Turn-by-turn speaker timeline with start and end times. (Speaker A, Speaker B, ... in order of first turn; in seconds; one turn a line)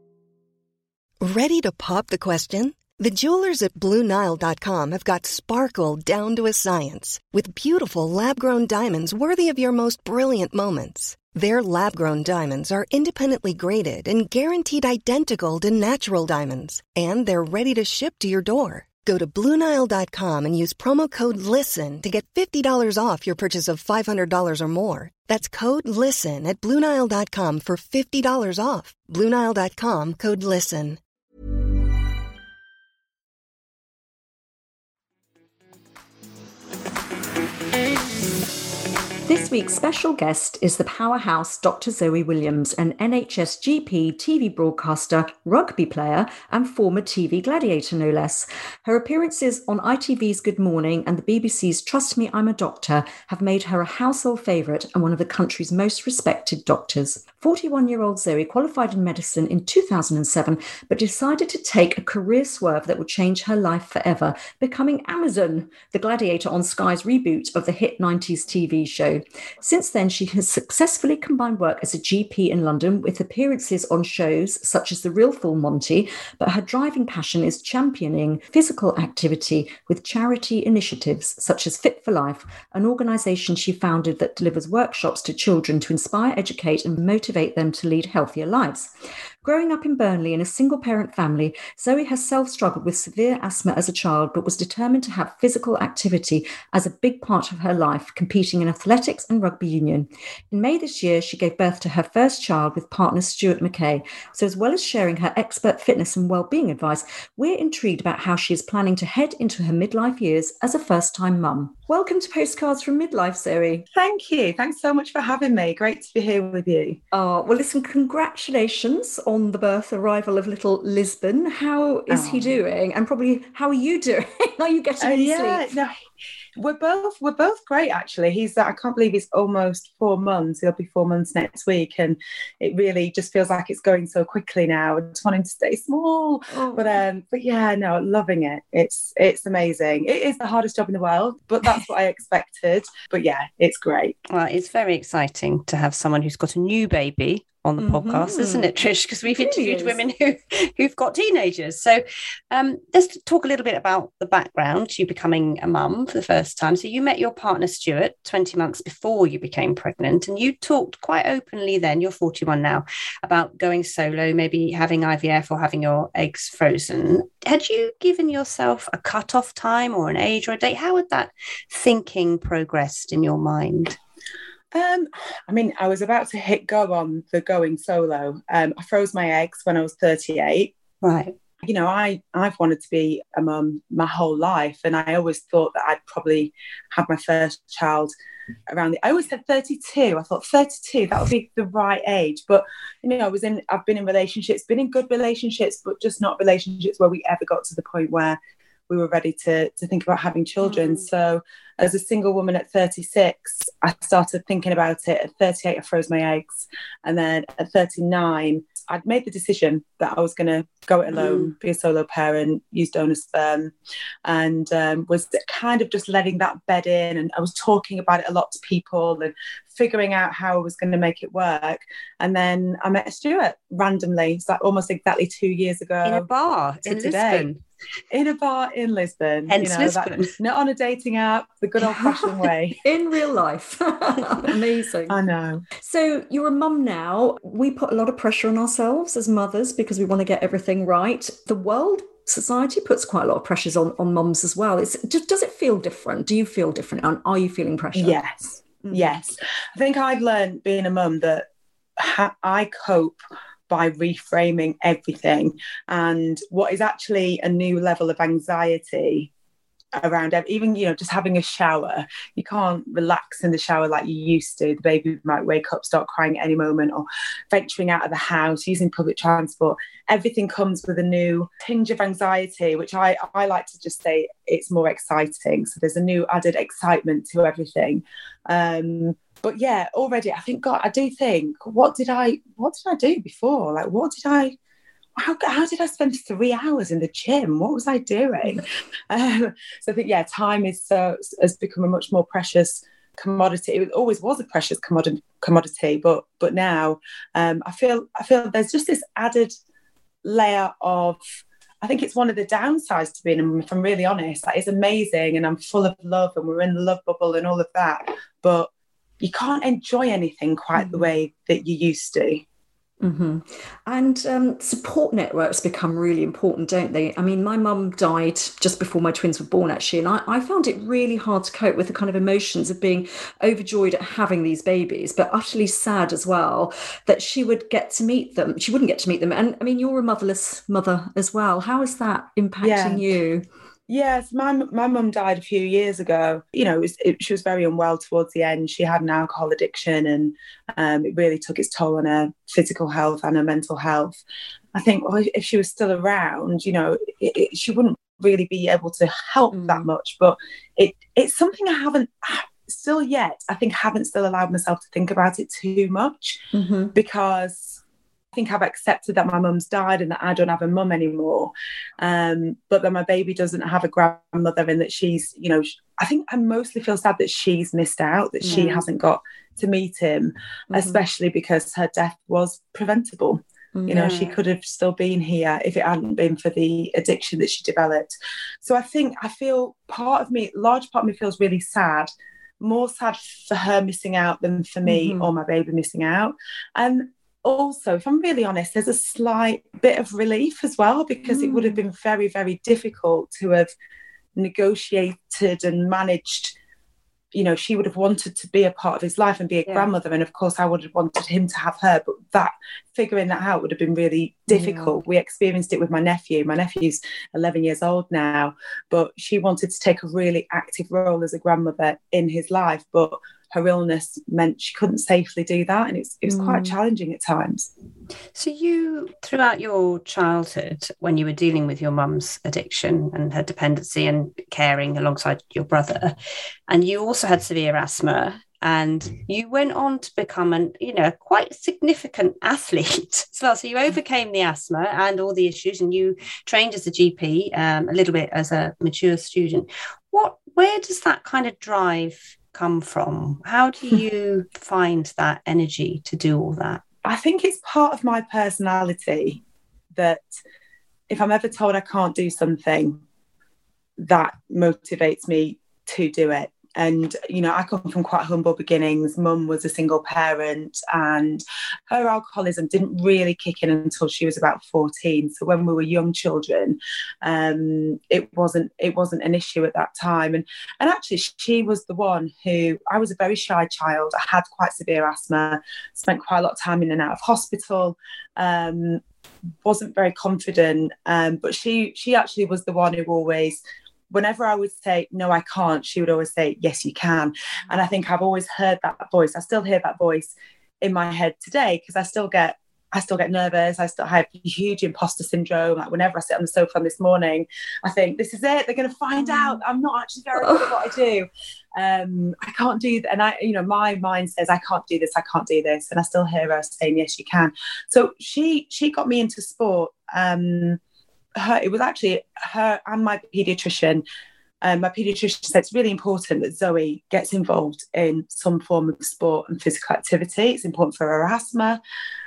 Speaker A: 1.2-31.0
Speaker B: 39.2-113.8
Speaker C: 113.9-117.0
Speaker B: 117.1-125.7
Speaker C: 122.1-122.6
Speaker C: 125.0-125.9
Speaker C: 126.6-144.2
Speaker B: 136.5-137.0
Speaker D: 144.3-174.0
Speaker B: 147.8-148.7
Speaker B: 149.4-150.0
Speaker C: 174.7-180.7
Speaker D: 181.0-181.3
Speaker C: 181.6-188.1
Speaker C: 188.7-198.4
Speaker C: 198.9-213.7
Speaker D: 200.6-201.0
Speaker D: 211.1-211.5
Speaker C: 214.2-226.3
Speaker D: 226.0-227.6
Speaker C: 226.8-227.5
Speaker C: 228.1-232.8
Speaker D: 229.5-230.3
Speaker B: 231.8-235.2
Speaker C: 235.1-235.7
Speaker B: 235.8-249.2
Speaker C: 247.9-248.3
Speaker C: 248.9-251.4
Speaker C: 252.0-253.2
Speaker C: 253.7-259.3
Speaker C: 259.9-284.5
Speaker C: 285.2-299.5
Speaker C: 300.2-301.2
Speaker C: 301.8-308.7
Speaker C: 309.2-312.4
Speaker B: 310.7-311.1
Speaker B: 313.0-333.4
Speaker C: 332.6-333.0
Speaker C: 333.9-344.2
Speaker C: 344.7-356.4
Speaker B: 349.5-349.9
Speaker B: 356.5-356.9
Speaker C: 356.9-357.8
Speaker C: 358.3-378.1
Speaker B: 368.4-368.7
Speaker D: 368.5-368.8
Speaker B: 370.7-371.0
Speaker B: 373.7-374.1
Speaker D: 373.9-374.3
Speaker C: 378.6-393.7
Speaker B: 384.8-385.3
Speaker B: 391.3-391.8
Speaker C: 394.4-396.5
Speaker C: 397.3-417.7
Speaker B: 404.5-405.0
Speaker B: 416.3-416.8
Speaker D: 418.3-426.1
Speaker D: 426.7-446.8
Speaker C: 447.0-449.4
Speaker C: 449.9-450.2
Speaker C: 451.1-453.0
Speaker C: 454.0-479.0
Speaker C: 479.6-510.8
Speaker B: 499.2-499.6
Speaker B: 500.4-500.8
Speaker C: 511.4-514.0
Speaker C: 514.6-521.8